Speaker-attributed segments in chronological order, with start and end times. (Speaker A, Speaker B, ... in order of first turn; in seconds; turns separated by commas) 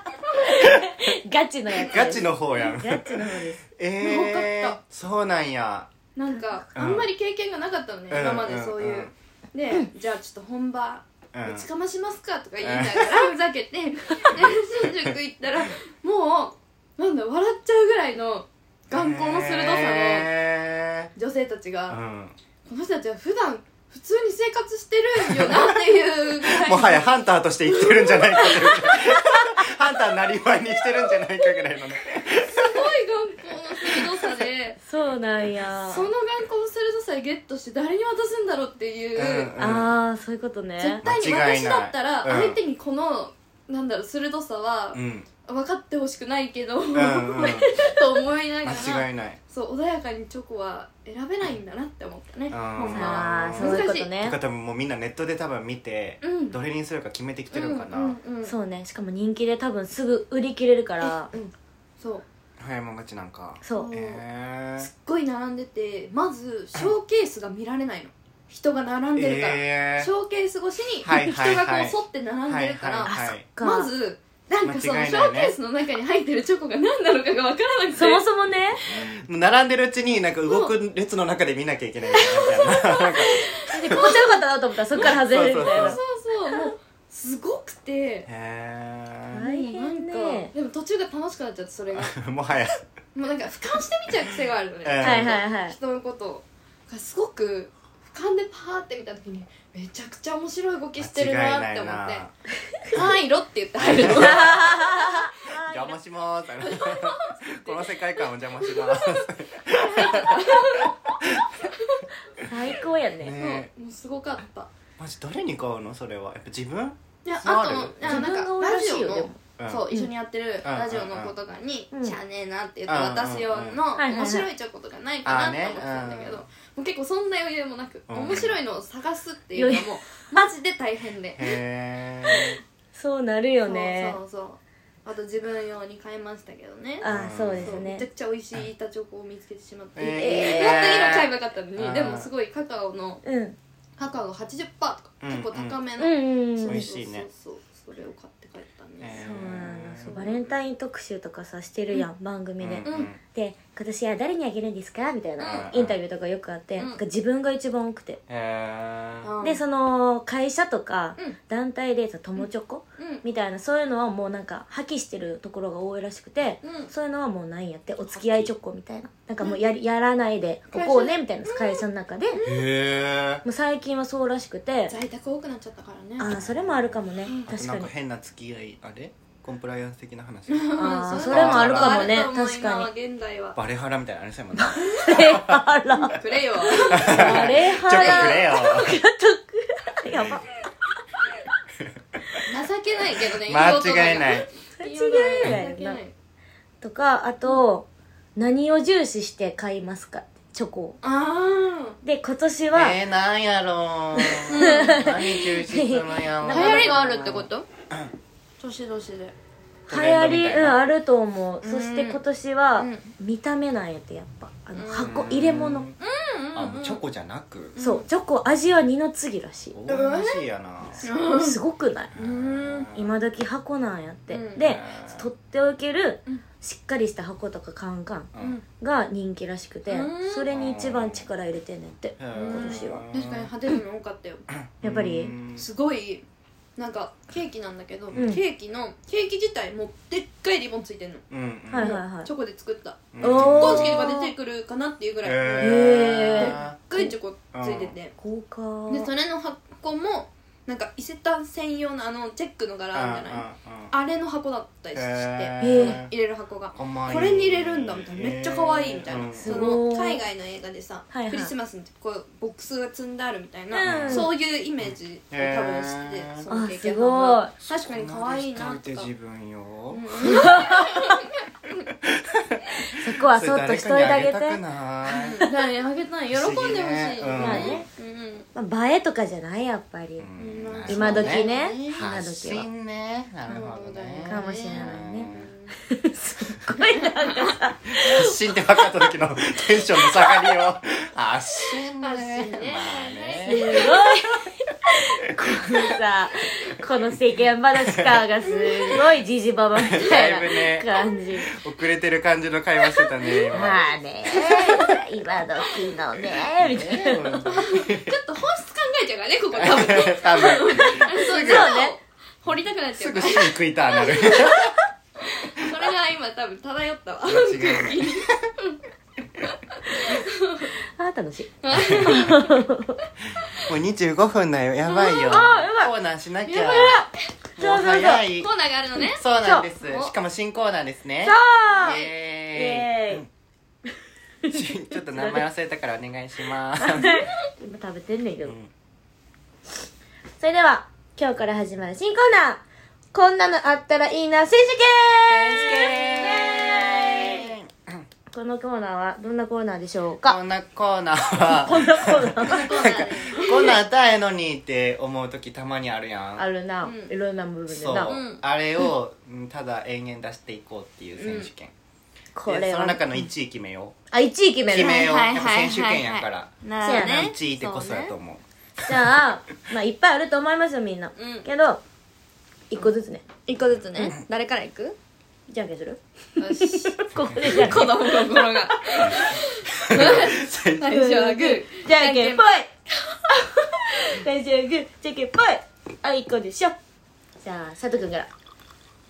Speaker A: 0.4-3.6, Speaker B: 0.4-1.1, Speaker B: 1.8-5.9, Speaker C: 4.0-4.8, Speaker C: 6.2-20.3, Speaker B: 6.7-7.1, Speaker B: 8.1-9.1, Speaker B: 11.3-11.7, Speaker B: 12.6-13.3, Speaker B: 14.3-15.1, Speaker B: 18.9-21.1, Speaker C: 21.1-22.0, Speaker B: 21.9-22.4, Speaker C: 22.6-27.1, Speaker B: 25.2-25.8, Speaker B: 26.4-32.9, Speaker C: 27.7-29.0, Speaker C: 32.4-34.8, Speaker B: 33.8-34.5, Speaker A: 34.8-36.1, Speaker C: 35.9-39.5, Speaker B: 39.1-39.9, Speaker A: 39.6-41.0, Speaker C: 40.8-54.1, Speaker B: 41.0-42.6, Speaker B: 44.9-45.3, Speaker B: 46.9-47.8, Speaker B: 48.6-49.4, Speaker B: 52.5-58.2, Speaker A: 52.9-54.4, Speaker C: 56.2-56.6, Speaker C: 57.5-58.5, Speaker A: 58.4-61.3, Speaker C: 61.0-62.2, Speaker B: 62.6-64.9, Speaker A: 63.6-63.9, Speaker C: 63.7-64.2, Speaker C: 64.8-78.2, Speaker B: 69.1-70.1, Speaker B: 71.0-73.4, Speaker A: 73.0-73.9, Speaker B: 74.6-75.5, Speaker A: 77.9-78.8, Speaker B: 78.9-84.1, Speaker C: 80.5-80.7, Speaker C: 82.1-84.3, Speaker A: 83.6-86.0, Speaker B: 84.9-86.0, Speaker C: 84.9-88.3, Speaker B: 88.2-89.4, Speaker A: 89.3-90.5, Speaker C: 89.4-92.2, Speaker B: 91.9-92.8, Speaker C: 93.1-102.3, Speaker B: 94.8-95.4, Speaker A: 95.0-95.8, Speaker B: 101.0-102.3, Speaker C: 102.9-105.3, Speaker B: 103.8-111.7, Speaker A: 104.1-106.0, Speaker C: 106.6-112.0, Speaker A: 112.4-113.4, Speaker B: 113.2-113.7, Speaker C: 113.4-114.7, Speaker B: 115.0-118.3, Speaker C: 117.2-131.6, Speaker A: 118.0-119.4, Speaker B: 119.6-119.8, Speaker B: 120.6-121.3, Speaker A: 121.9-122.2, Speaker B: 122.9-123.8, Speaker A: 124.0-124.5, Speaker B: 125.2-126.4, Speaker B: 128.1-128.6, Speaker A: 129.6-130.5, Speaker B: 131.4-132.6, Speaker A: 132.9-134.2, Speaker C: 133.6-137.1, Speaker A: 137.0-138.0, Speaker B: 137.0-137.8, Speaker C: 137.6-143.2, Speaker B: 139.9-142.3, Speaker A: 140.1-141.1, Speaker A: 143.2-143.6, Speaker C: 144.0-149.2, Speaker B: 145.2-145.8, Speaker A: 146.0-146.8, Speaker B: 146.7-147.3, Speaker B: 149.0-150.2, Speaker A: 149.1-158.2, Speaker C: 150.1-150.5, Speaker B: 152.6-153.2, Speaker C: 152.8-153.1, Speaker C: 155.4-155.7, Speaker B: 155.4-155.9, Speaker B: 158.3-159.3, Speaker C: 159.2-159.6, Speaker A: 159.4-172.4, Speaker C: 163.0-163.2, Speaker C: 166.6-166.9, Speaker B: 168.2-168.5, Speaker C: 169.4-169.7, Speaker C: 170.7-172.6, Speaker B: 172.4-173.4, Speaker A: 173.4-174.9, Speaker C: 174.9-176.3, Speaker A: 176.2-177.9, Speaker B: 176.2-182.2, Speaker C: 180.5-183.6, Speaker A: 180.8-182.9, Speaker B: 183.5-185.6, Speaker A: 184.6-190.6, Speaker C: 186.0-188.8, Speaker B: 186.8-188.9, Speaker B: 190.1-190.4, Speaker B: 191.8-192.4, Speaker C: 192.5-196.1, Speaker B: 193.3-194.5, Speaker A: 194.8-196.0, Speaker A: 196.8-201.0, Speaker C: 201.0-202.0, Speaker A: 202.0-202.9, Speaker B: 202.7-208.1, Speaker A: 204.2-207.0, Speaker C: 204.5-205.1, Speaker C: 206.5-207.7, Speaker C: 208.6-209.3, Speaker B: 209.9-210.8, Speaker A: 209.9-215.9, Speaker C: 211.6-212.2, Speaker C: 212.8-213.1, Speaker C: 214.8-215.1, Speaker B: 215.0-215.9, Speaker C: 216.0-217.0, Speaker B: 216.5-217.8, Speaker C: 217.7-218.1, Speaker A: 217.8-219.8, Speaker B: 219.7-221.1, Speaker C: 219.9-220.4, Speaker C: 221.0-221.6, Speaker A: 221.3-222.1, Speaker B: 222.1-223.1, Speaker C: 222.2-222.9, Speaker A: 222.9-233.0, Speaker C: 224.3-224.7, Speaker B: 224.6-225.3, Speaker B: 228.3-228.6, Speaker C: 229.9-230.5, Speaker B: 230.5-231.3, Speaker B: 232.2-233.5, Speaker C: 232.3-234.5, Speaker B: 234.6-235.7, Speaker A: 234.8-235.3, Speaker C: 235.5-236.2, Speaker C: 236.8-248.1, Speaker B: 238.1-238.4, Speaker A: 238.1-238.4, Speaker B: 241.3-241.9, Speaker A: 241.7-242.3, Speaker B: 243.1-244.1, Speaker A: 243.2-244.3, Speaker B: 245.2-246.8, Speaker A: 245.6-247.1, Speaker B: 247.5-247.9, Speaker A: 248.2-249.1, Speaker C: 248.9-269.1, Speaker B: 252.9-253.9, Speaker B: 254.9-256.1, Speaker A: 255.6-256.0, Speaker B: 256.7-259.7, Speaker A: 259.4-260.2, Speaker A: 261.1-261.5, Speaker A: 263.7-264.3, Speaker B: 263.8-264.3, Speaker B: 264.8-266.4, Speaker A: 266.5-267.5, Speaker B: 267.7-270.5, Speaker C: 269.9-271.9, Speaker A: 270.2-271.2, Speaker B: 272.0-275.4, Speaker A: 272.9-274.6, Speaker C: 275.1-278.5, Speaker B: 276.3-277.8, Speaker A: 277.4-277.9, Speaker A: 278.5-280.3, Speaker B: 280.2-285.5, Speaker C: 280.4-282.1, Speaker A: 280.9-282.7, Speaker C: 283.5-285.8, Speaker A: 284.3-285.3, Speaker A: 285.8-288.3, Speaker C: 286.9-287.5, Speaker B: 287.9-294.4, Speaker C: 292.0-293.9, Speaker A: 293.4-301.5, Speaker B: 295.5-295.9, Speaker B: 297.8-298.2, Speaker C: 298.6-298.9, Speaker B: 299.8-300.9, Speaker B: 301.5-305.0, Speaker A: 303.5-307.4, Speaker B: 306.3-308.2, Speaker C: 307.4-318.8, Speaker B: 309.5-311.7, Speaker A: 311.2-312.0, Speaker B: 312.9-314.9, Speaker B: 317.2-318.5, Speaker C: 319.4-320.7, Speaker A: 321.0-323.0, Speaker C: 321.6-322.6, Speaker B: 321.7-322.1, Speaker B: 323.6-327.0, Speaker C: 324.9-325.5, Speaker A: 325.2-325.9, Speaker C: 326.4-327.3, Speaker A: 326.7-327.1, Speaker B: 327.6-333.3, Speaker A: 327.6-328.2, Speaker C: 327.9-330.1, Speaker A: 331.2-332.0, Speaker C: 331.7-332.1, Speaker A: 332.5-333.2, Speaker A: 334.4-335.4, Speaker B: 334.5-337.2, Speaker A: 336.8-338.6, Speaker B: 338.4-338.7, Speaker A: 340.4-347.5, Speaker B: 345.3-348.0, Speaker C: 345.5-346.1, Speaker A: 348.3-350.4, Speaker B: 350.2-356.4, Speaker A: 351.5-353.0, Speaker C: 352.4-353.8, Speaker A: 356.4-358.1, Speaker C: 356.8-357.1, Speaker B: 357.7-361.7, Speaker C: 358.0-358.4, Speaker C: 361.2-361.5, Speaker A: 362.3-363.0, Speaker B: 362.4-363.9, Speaker A: 364.1-365.1, Speaker B: 364.7-368.4, Speaker C: 364.9-368.1, Speaker A: 366.8-367.3, Speaker A: 368.8-371.8, Speaker C: 371.2-371.5, Speaker A: 372.7-373.3, Speaker C: 373.4-375.0, Speaker A: 375.5-379.3, Speaker C: 376.4-382.6, Speaker B: 377.2-377.6, Speaker B: 379.8-380.9, Speaker A: 380.9-382.6, Speaker A: 383.3-386.8, Speaker A: 387.4-388.3